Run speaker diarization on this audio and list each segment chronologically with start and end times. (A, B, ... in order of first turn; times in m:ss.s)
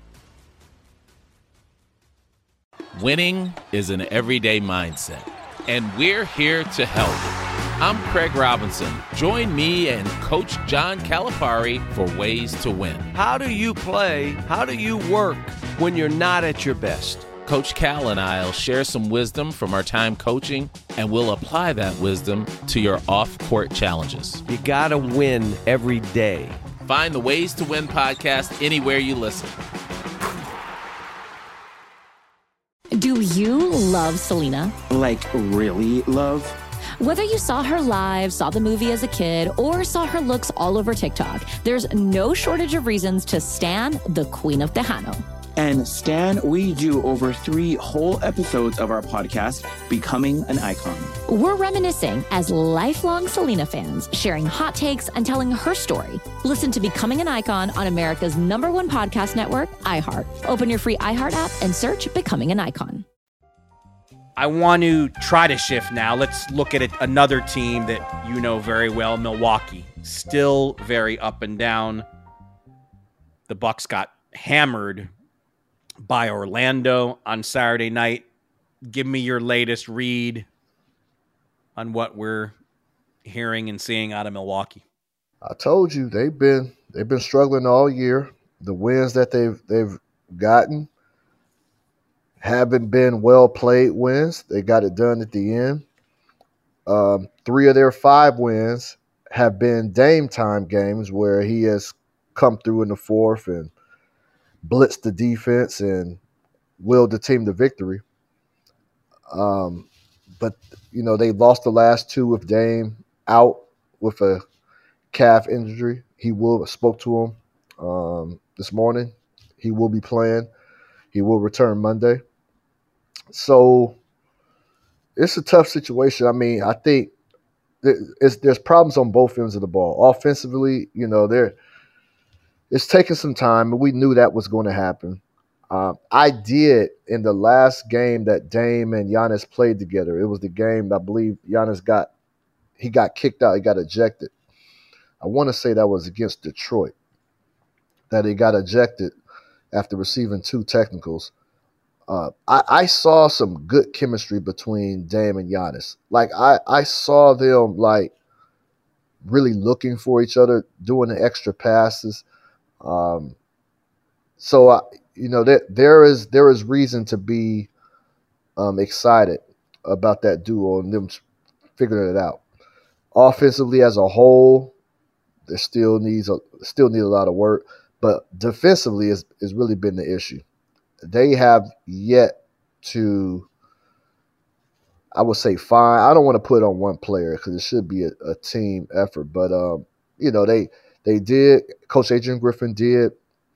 0:02.9-0:13.1 A
0:13.1-0:17.3 B
0:17.4-0:24.4 A
0:24.5-0:26.6 B
0:26.8-0:29.5 A
0:32.9-0:34.7 C
0:34.9-0:36.6 D
0:37.0-0:45.2 C
0:45.6-0:51.1 D
0:51.3-1:03.0 C
1:04.4-1:12.0 E
1:13.5-1:15.1 E
1:16.0-1:18.2 E
1:18.9-1:20.4 E
1:21.8-1:22.5 E
1:23.2-1:24.8 E
1:25.4-1:30.9 F
1:32.4-1:35.8 F
1:36.8-1:43.7 F
1:44.6-1:46.2 F
1:46.8-1:48.0 F
1:49.3-1:49.9 F
1:50.4-1:54.4 F
1:55.1-2:00.5 F
2:01.1-2:02.2 F
2:03.3-2:04.0 F
2:05.2-2:07.1 F
2:07.8-2:11.6 F
2:12.7-2:22.1 F
2:22.8-2:24.3 F
2:25.2-2:26.9 F
2:28.1-2:29.1 F
2:29.7-2:31.3 F
2:32.1-2:38.1 F
2:39.2-2:42.2 F
2:42.8-2:43.4 F
2:44.4-2:47.7 F
2:48.6-2:51.2 F
2:51.8-2:52.4 F
2:53.1-2:54.7 F
2:55.5-3:00.4 F
3:01.0-3:03.5 F
3:05.1-3:13.2 F